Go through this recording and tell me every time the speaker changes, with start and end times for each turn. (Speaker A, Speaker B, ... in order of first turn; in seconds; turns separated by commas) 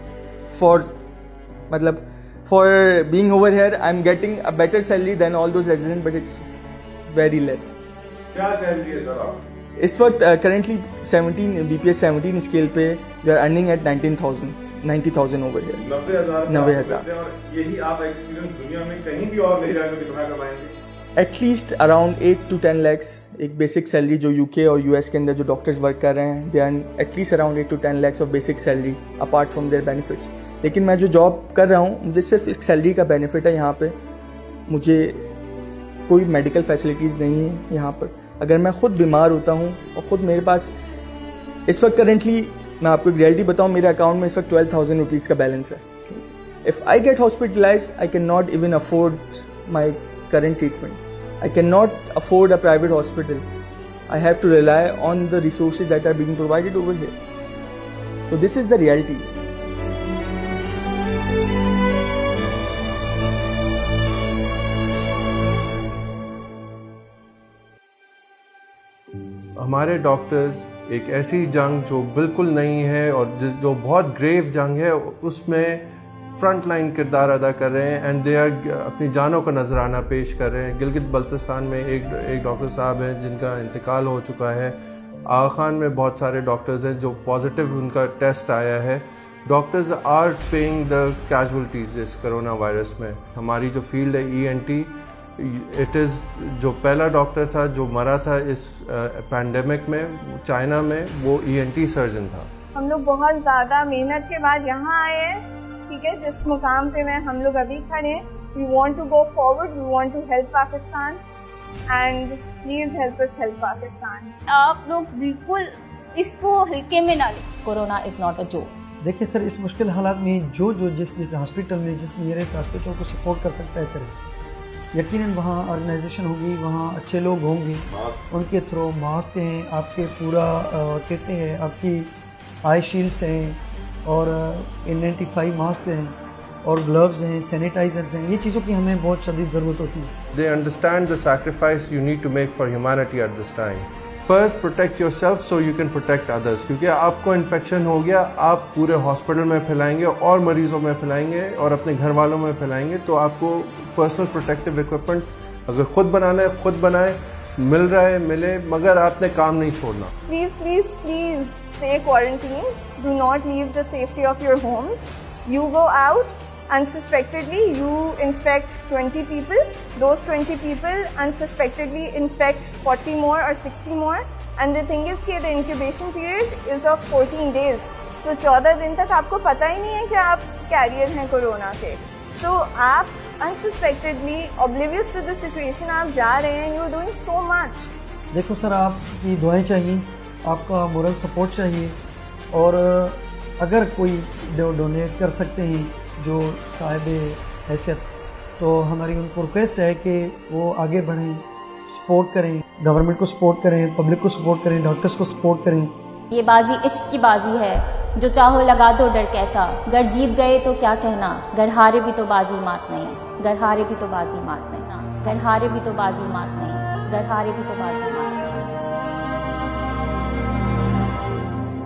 Speaker A: 0.5-6.5, Speaker A: 7.1-7.8, Speaker B: 8.3-9.4, Speaker A: 9.8-15.9, Speaker B: 15.8-20.7, Speaker A: 16.5-17.1, Speaker A: 19.6-19.9, Speaker A: 21.2-34.0, Speaker A: 34.7-35.3, Speaker A: 36.1-40.7, Speaker A: 41.7-53.5, Speaker A: 54.1-57.2, Speaker A: 58.3-59.3, Speaker C: 69.6-75.8, Speaker C: 76.4-84.8, Speaker C: 85.3-102.5, Speaker D: 102.8-111.2, Speaker D: 111.9-114.3, Speaker E: 114.5-117.4, Speaker F: 117.6-118.7, Speaker G: 119.0-124.1, Speaker G: 124.9-132.1, Speaker B: 127.9-128.2, Speaker G: 132.6-140.1, Speaker C: 140.3-160.1, Speaker D: 160.3-187.9, Speaker G: 188.3-192.0, Speaker G: 192.5-198.1, Speaker G: 198.6-205.9, Speaker F: 206.3-218.6